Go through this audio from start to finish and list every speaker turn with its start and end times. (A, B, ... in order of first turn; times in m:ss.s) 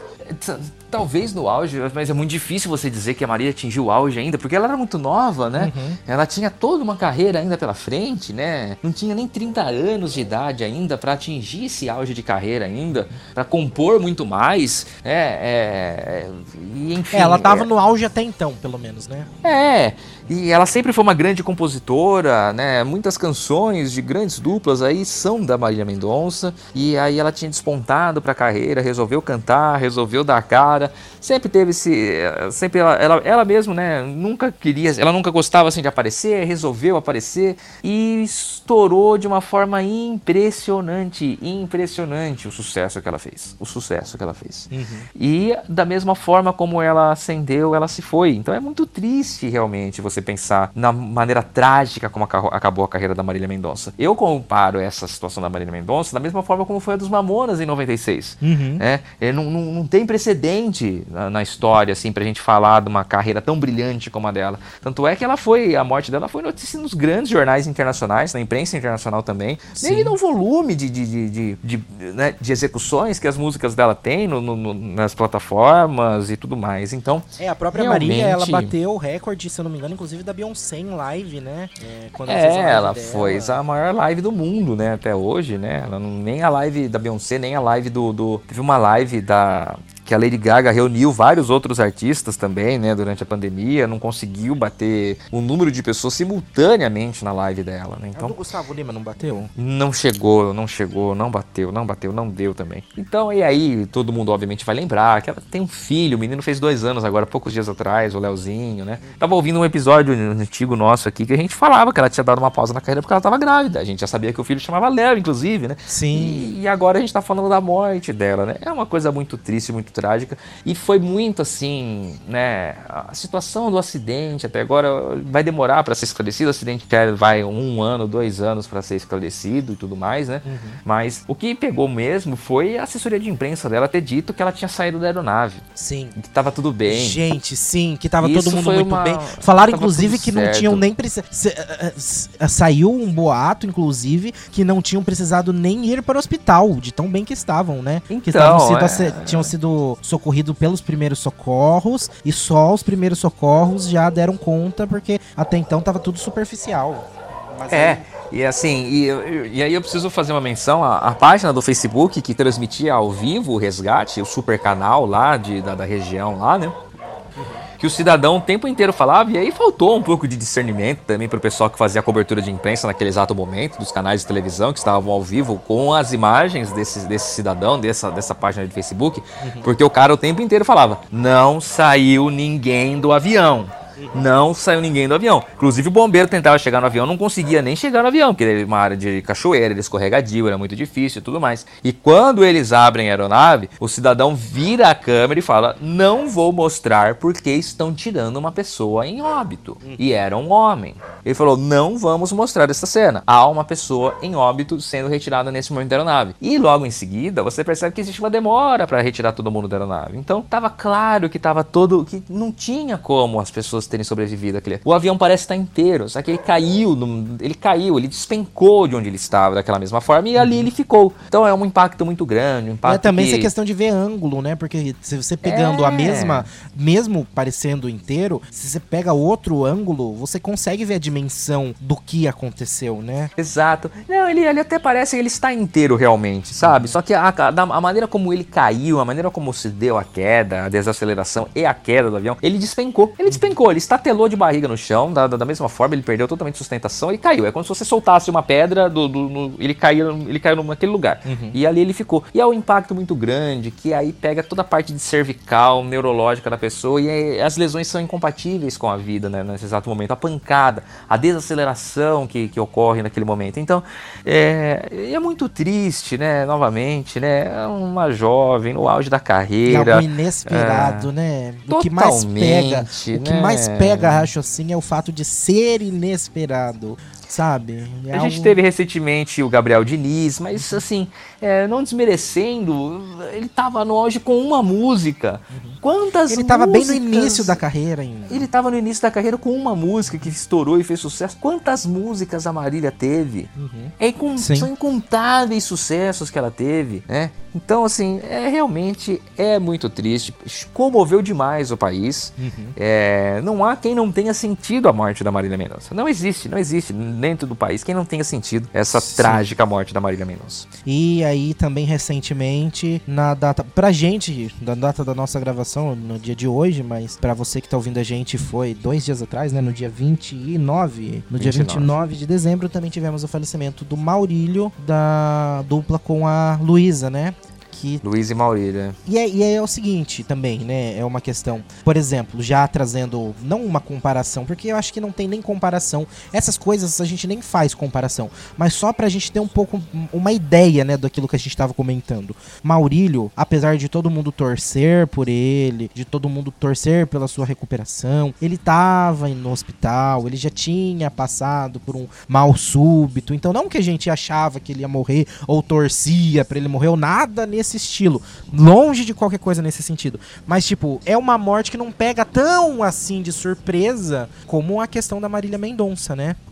0:00.2-0:17.7 A
0:05.6-0:06.0 B
0:17.1-0:19.3 B
0:19.4-1:18.7 A
0:44.7-0:45.1 B
0:58.4-0:58.8 B
1:09.8-1:10.2 B
1:17.4-1:23.6 B
1:22.3-1:38.4 A
1:38.1-1:39.5 B
1:39.6-2:15.6 A
1:55.9-1:56.5 B
2:10.4-2:10.8 B
2:15.7-2:16.2 B
2:16.2-2:17.2 A
2:16.9-2:38.1 B
2:18.2-2:20.8 A
2:28.1-2:29.5 A
2:37.7-2:46.8 A
2:47.4-2:47.6 B
2:47.8-3:43.5 A
2:59.4-2:59.7 B
3:04.0-3:04.3 B
3:40.4-3:40.7 B
3:42.8-3:53.3 B
3:45.4-3:46.5 A
3:53.4-4:31.1 A
3:56.6-3:57.0 B
4:03.3-4:03.5 B
4:11.2-4:11.6 B
4:29.6-4:38.6 B
4:31.7-4:34.3 A
4:38.1-4:47.6 A
4:40.5-4:40.8 B
4:45.5-4:48.5 B
4:48.3-5:10.7 A
4:53.6-4:54.7 B
5:02.4-5:02.8 B
5:08.9-5:09.5 B
5:10.8-5:28.0 B
5:21.4-5:21.9 A
5:28.0-5:29.0 A
5:29.0-6:06.4 B